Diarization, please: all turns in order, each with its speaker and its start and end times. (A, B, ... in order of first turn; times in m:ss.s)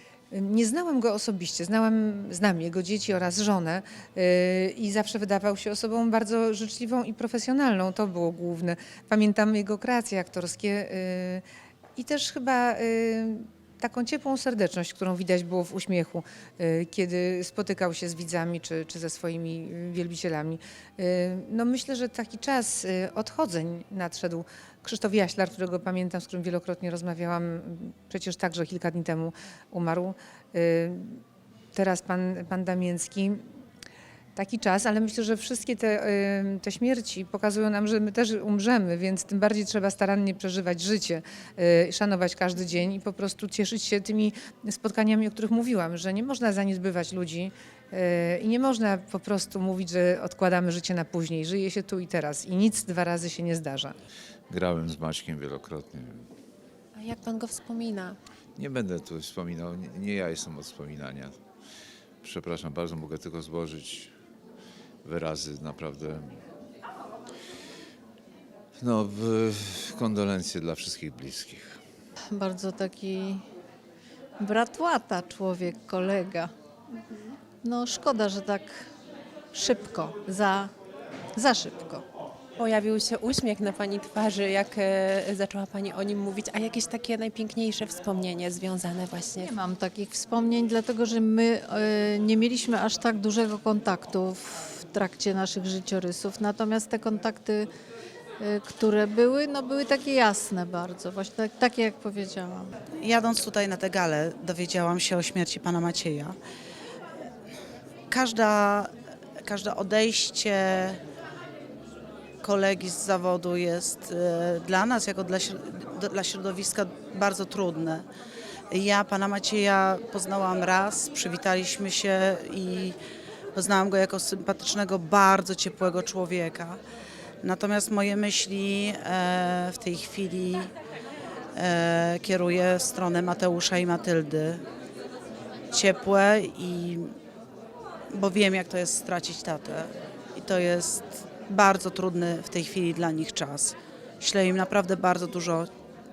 0:00.3-0:11.4 A
0:12.0-0:31.2 A
0:31.7-0:33.4 A
0:34.4-0:54.0 A
0:54.5-0:56.3 B
0:56.9-0:58.2 C
0:58.6-1:01.4 B
1:02.2-1:04.1 B
1:05.0-1:06.2 B
1:08.8-1:11.8 B
1:12.3-1:13.4 D
1:14.4-1:16.5 D
1:17.6-1:18.8 D
1:19.5-1:20.7 D
1:21.4-1:22.0 D
1:22.6-1:29.5 C
1:29.4-1:37.7 D
1:38.4-1:42.7 D
1:43.0-1:46.4 E
1:48.1-1:48.9 E
1:49.4-1:51.0 E
1:52.4-1:58.1 E
1:58.7-2:03.0 E
2:03.5-2:06.8 E
2:07.4-2:10.7 E
2:11.5-2:14.6 E
2:15.7-2:17.1 E
2:18.1-2:25.7 E